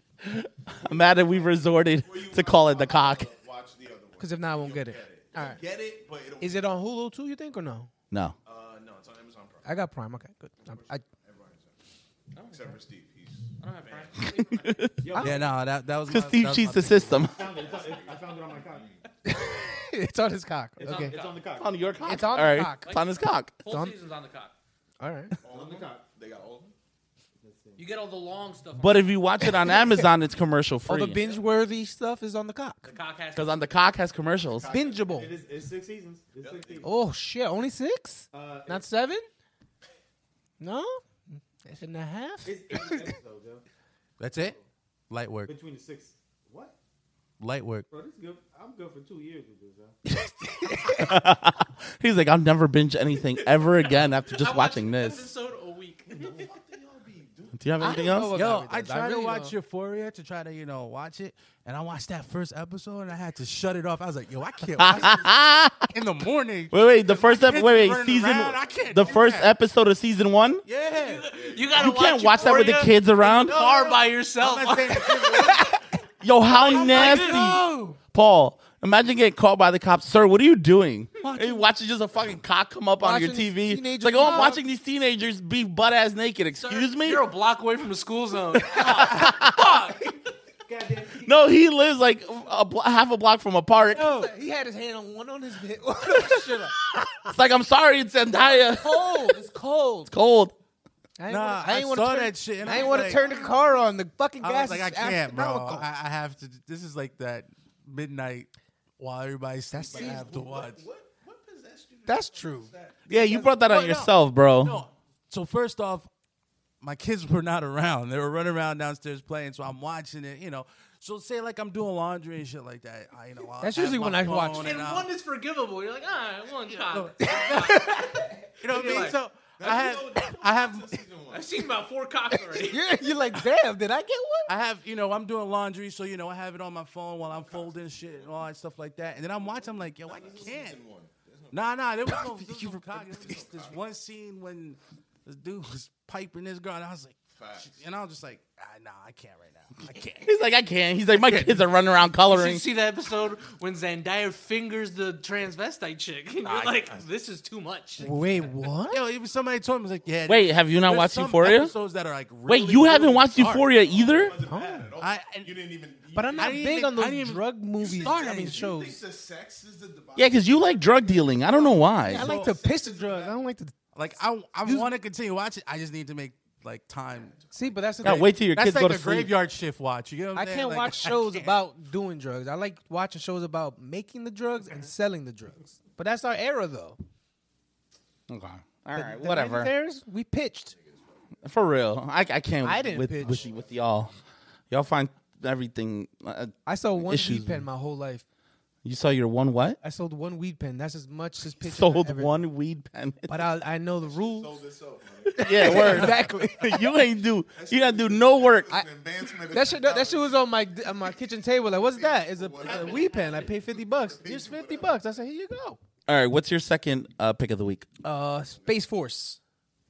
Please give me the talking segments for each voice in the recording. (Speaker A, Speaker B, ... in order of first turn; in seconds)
Speaker A: 0.2-3.3, 8.1-8.3, 14.3-15.1, 16.1-17.5, 21.5-23.6, 28.8-31.2, 33.3-34.7, 50.8-55.3, 57.5-58.3, 64.8-65.9, 66.7-70.6, 71.7-73.7, 76.2-87.3, 88.6-89.9, 91.2-94.3, 97.2-99.4, 100.1-100.5, 113.1-114.8, 150.2-152.6, 160.3-161.7, 162.5-164.3, 170.2-172.2, 178.0-179.3, 188.3-189.7, 191.4-194.1, 194.7-197.7, 198.8-199.8, 201.6-203.4, 205.4-208.9, 216.1-217.8
Speaker B: 0.9-6.7, 8.4-9.7, 10.6-11.7, 12.5-13.4, 17.4-18.9, 25.4-26.7, 34.6-35.2, 36.4-36.9, 56.2-57.6, 71.3-71.8, 102.7-103.7, 109.9-113.6, 128.7-131.6, 137.2-138.3, 140.0-141.7, 143.2-143.8, 147.3-147.8, 163.7-166.5, 167.8-173.4, 177.2-177.8, 193.2-193.9, 204.0-206.1, 207.5-214.9
Speaker C: 4.2-5.6, 6.4-7.9, 9.6-11.0, 19.2-21.1, 22.0-22.9, 23.6-24.0, 25.0-25.4, 29.5-30.1, 30.9-32.9, 34.7-35.3, 36.8-39.3, 40.6-43.1, 50.4-51.2, 57.8-59.5, 75.3-75.8, 76.7-77.7, 83.0-84.6, 93.9-96.8, 98.5-100.1, 101.2-105.9, 109.7-110.4, 112.0-112.7, 123.6-124.7, 127.2-128.4, 132.3-134.5, 142.1-143.4, 158.0-159.0, 164.4-164.9, 166.1-169.0, 172.1-173.7, 174.6-174.9, 177.5-178.3, 180.3-187.0, 188.9-190.8, 192.6-193.5, 196.7-198.2, 199.8-202.4, 203.3-204.6, 205.3-206.8, 209.3-215.8, 218.0-219.4
Speaker D: 12.3-12.8, 14.0-15.5, 17.3-18.9, 20.8-22.0, 25.5-26.0, 27.4-27.9, 35.0-36.9, 38.3-38.8, 42.4-43.6, 44.4-44.6, 45.5-46.7, 47.9-50.0, 90.6-91.4
Speaker E: 13.6-14.6, 20.8-21.5, 23.6-24.5, 27.8-29.2, 32.9-33.6, 54.3-56.4, 70.9-75.7, 76.5-77.8, 86.6-90.2, 124.6-129.2, 131.3-132.9, 152.2-158.1
Speaker F: 15.2-17.2, 44.2-44.5, 45.1-45.5, 47.4-47.9, 58.3-65.3, 65.9-69.5, 70.7-71.3, 73.6-75.7, 76.6-77.6, 81.2-81.6, 101.3-103.3, 104.4-110.8, 113.3-116.1, 116.8-125.1, 126.9-127.9, 128.6-131.0, 134.5-140.8, 141.5-150.3, 151.2-151.6, 156.4-157.0, 158.8-163.7, 165.0-165.5, 166.3-168.7, 172.1-172.5, 173.9-177.3, 178.0-181.6